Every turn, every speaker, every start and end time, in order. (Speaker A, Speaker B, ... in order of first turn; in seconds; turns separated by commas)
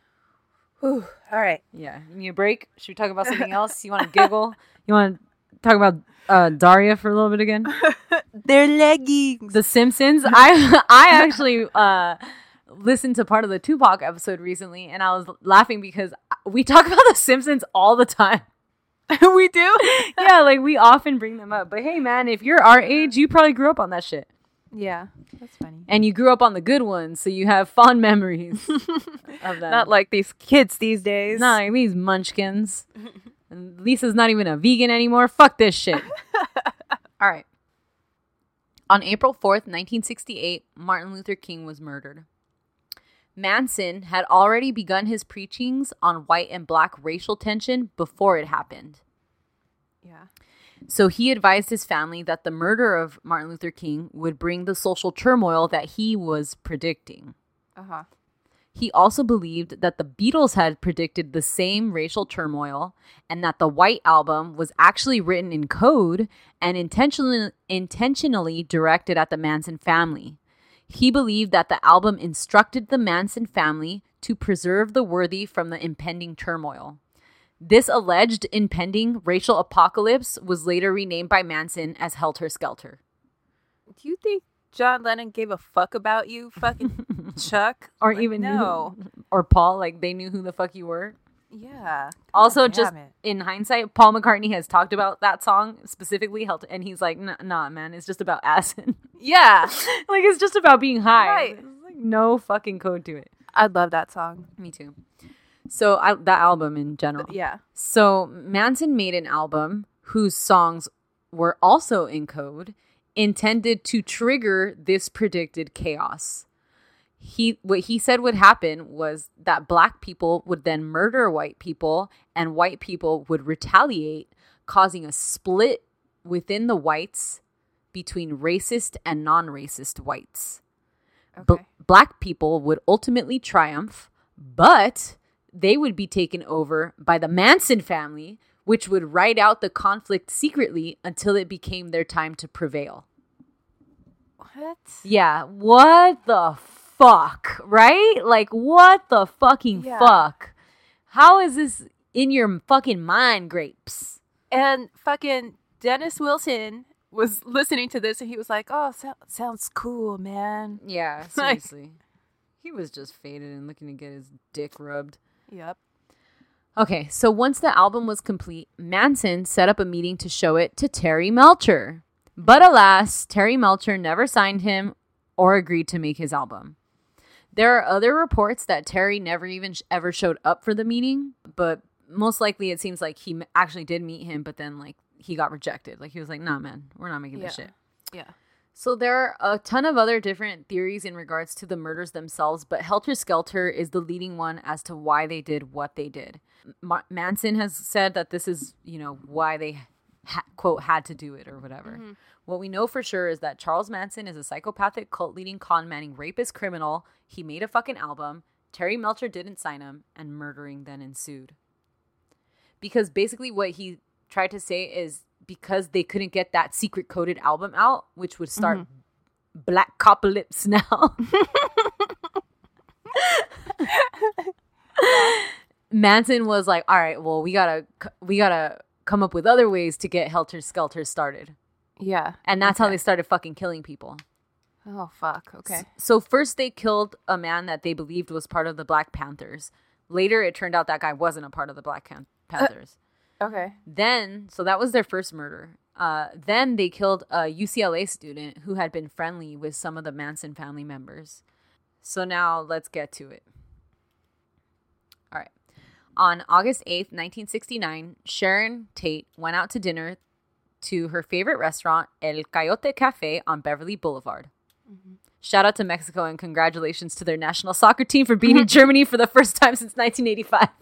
Speaker A: 0.8-1.6, Speaker B: 1.7-7.7, Speaker A: 7.8-9.6, Speaker B: 9.5-18.4, Speaker A: 19.1-20.3, Speaker B: 19.8-24.3, Speaker A: 24.7-25.9, Speaker B: 25.9-29.9, Speaker A: 29.7-31.6, Speaker B: 31.3-32.9, Speaker B: 33.5-36.1, Speaker B: 37.2-37.5, Speaker B: 38.9-42.3, Speaker B: 43.4-49.0, Speaker A: 50.0-50.3, Speaker B: 50.9-57.3, Speaker A: 57.8-58.0, Speaker B: 58.8-70.4, Speaker B: 70.9-77.0, Speaker B: 77.6-83.0, Speaker A: 84.0-89.0, Speaker B: 88.0-91.2, Speaker A: 91.5-93.1, Speaker B: 92.3-99.0, Speaker A: 99.2-99.8, Speaker B: 99.7-103.3, Speaker A: 101.2-101.6, Speaker A: 103.5-104.5, Speaker B: 104.6-105.0, Speaker B: 105.7-116.5, Speaker A: 107.2-107.6, Speaker B: 117.2-127.4, Speaker B: 127.9-130.6, Speaker A: 131.4-131.7, Speaker B: 131.4-143.1, Speaker A: 144.4-145.0, Speaker B: 145.0-150.5, Speaker A: 149.8-150.2, Speaker B: 151.1-154.2, Speaker A: 154.5-160.8, Speaker B: 160.8-162.0, Speaker A: 161.3-161.6, Speaker B: 162.6-165.2, Speaker A: 165.5-165.8, Speaker B: 166.8-176.8, Speaker B: 177.5-187.7, Speaker A: 187.3-188.3, Speaker B: 188.8-211.6, Speaker A: 201.9-202.2, Speaker B: 212.8-218.9, Speaker A: 218.6-218.8, Speaker B: 219.6-221.3, Speaker A: 221.4-221.7, Speaker B: 223.2-223.9, Speaker A: 223.9-224.5, Speaker B: 225.0-231.6, Speaker A: 225.1-225.4, Speaker A: 232.0-233.0, Speaker B: 232.5-234.2, Speaker A: 234.9-235.9, Speaker B: 235.7-242.9, Speaker A: 243.4-243.8, Speaker B: 243.9-251.4, Speaker B: 252.0-253.4, Speaker B: 256.2-260.2, Speaker B: 260.8-264.5, Speaker A: 264.9-265.2, Speaker B: 265.4-270.7